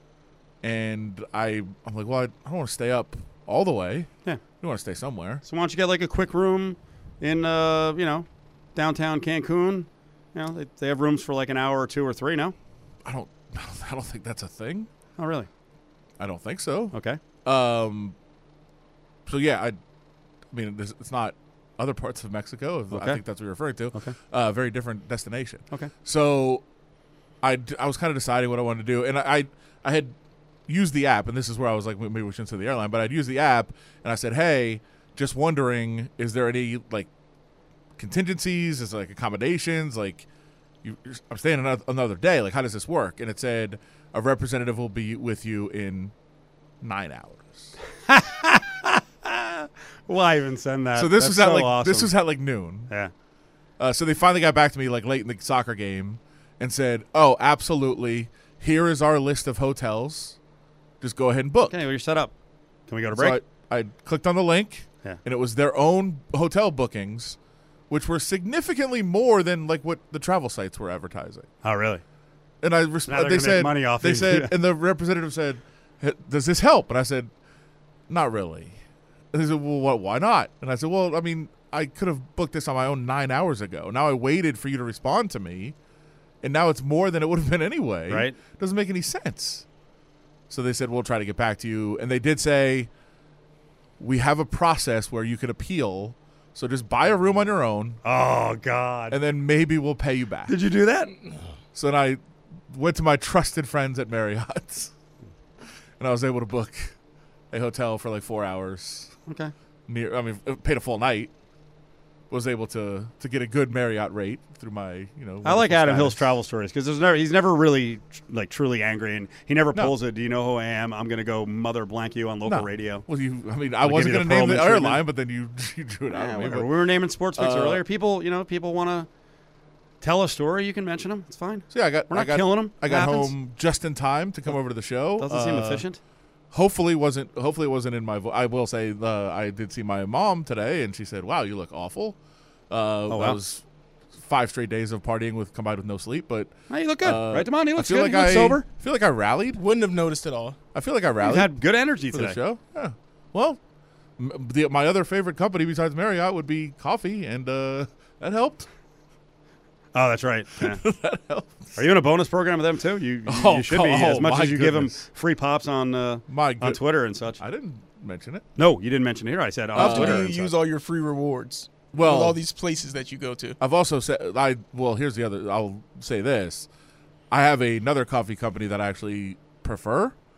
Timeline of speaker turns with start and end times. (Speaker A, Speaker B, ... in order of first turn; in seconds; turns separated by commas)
Speaker A: 0.6-5.4, Speaker B: 5.4-12.5, Speaker A: 13.0-14.9, Speaker B: 15.2-15.5, Speaker A: 16.2-18.1, Speaker B: 16.9-17.2, Speaker A: 19.2-19.8, Speaker A: 20.5-26.6, Speaker B: 22.9-23.2, Speaker A: 27.4-30.1, Speaker A: 30.7-37.1, Speaker A: 38.0-40.3, Speaker A: 40.8-46.1, Speaker A: 46.8-47.7, Speaker B: 48.0-52.1, Speaker A: 50.9-52.9, Speaker A: 53.8-60.4, Speaker A: 61.0-61.8, Speaker B: 61.6-62.3, Speaker B: 62.9-63.4, Speaker A: 63.1-67.4, Speaker A: 67.9-71.5, Speaker B: 71.6-72.0, Speaker A: 72.6-77.3, Speaker B: 73.1-74.5, Speaker A: 78.1-78.8, Speaker A: 79.3-85.7, Speaker A: 86.4-89.6, Speaker B: 88.1-88.4, Speaker A: 90.5-92.9, Speaker A: 94.0-98.0, Speaker B: 98.0-99.2, Speaker A: 99.1-100.5, Speaker B: 100.5-101.1, Speaker A: 101.7-104.9, Speaker A: 106.0-107.0, Speaker A: 107.5-109.1, Speaker B: 109.3-109.5, Speaker A: 109.9-111.3, Speaker A: 112.3-116.3, Speaker B: 115.4-123.0, Speaker A: 122.5-126.7, Speaker B: 123.8-125.0, Speaker B: 126.1-129.1, Speaker A: 127.3-127.8, Speaker B: 130.0-133.3, Speaker A: 131.7-135.8, Speaker B: 135.2-136.0, Speaker A: 136.5-142.2, Speaker A: 142.7-143.6, Speaker B: 143.1-143.4, Speaker A: 144.1-149.6, Speaker B: 146.7-148.7, Speaker C: 149.6-150.6, Speaker A: 150.7-151.5, Speaker B: 151.2-152.4, Speaker A: 152.1-153.6, Speaker A: 154.2-158.7, Speaker B: 159.9-160.8, Speaker A: 160.6-161.8, Speaker B: 161.8-167.4, Speaker A: 163.2-165.0, Speaker A: 166.3-166.8, Speaker A: 167.3-168.4, Speaker B: 168.6-170.5, Speaker A: 169.7-170.3, Speaker C: 169.7-173.6, Speaker A: 171.9-172.4, Speaker A: 173.6-176.7, Speaker A: 177.3-180.1